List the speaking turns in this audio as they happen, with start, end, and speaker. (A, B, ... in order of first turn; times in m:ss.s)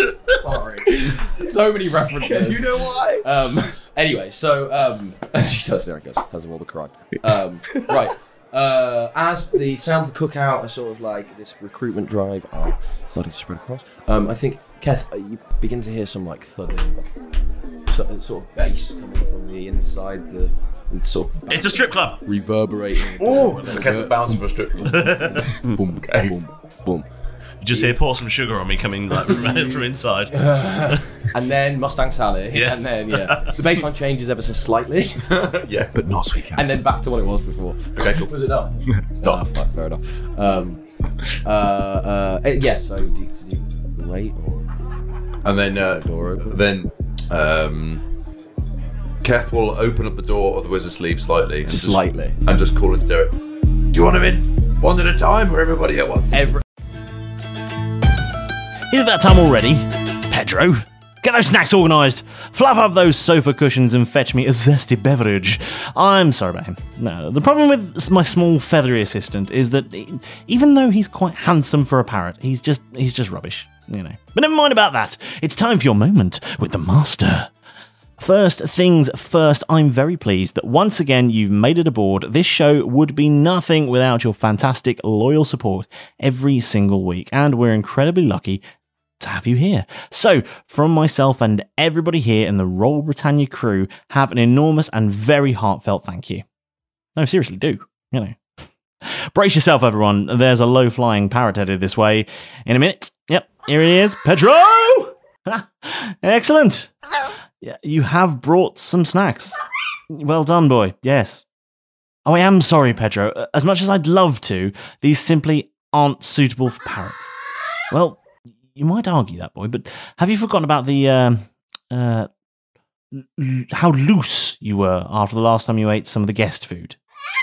0:00.3-0:17.0 A
0:02.1-0:03.5 B
0:07.7-0:08.0 B
0:17.9-0:24.2 A
0:21.5-0:22.2 C
0:23.2-0:25.4 D
0:24.9-0:25.5 C
0:25.2-0:27.1 A
0:26.0-0:26.3 D
0:27.6-0:31.0 C
0:27.7-0:28.0 A
0:30.4-0:35.2 A
0:32.5-0:33.5 C
0:35.3-0:36.0 D
0:35.9-0:36.7 B
0:36.6-0:40.8 A
0:38.0-0:38.3 D
0:41.4-0:44.7 A
0:45.4-0:48.0 D
0:45.9-0:46.6 A
0:49.2-0:53.4 D
0:51.7-0:52.4 A
0:53.9-0:56.5 D
0:56.3-0:56.6 A
0:58.9-1:17.5 E
1:18.2-1:28.6 E
1:29.2-1:36.4 E
1:37.2-1:38.4 E
1:39.3-1:46.9 E
1:47.6-1:51.4 E
1:52.3-1:57.3 E
1:57.9-1:58.2 E
1:58.8-2:02.3 E
2:03.1-2:07.0 E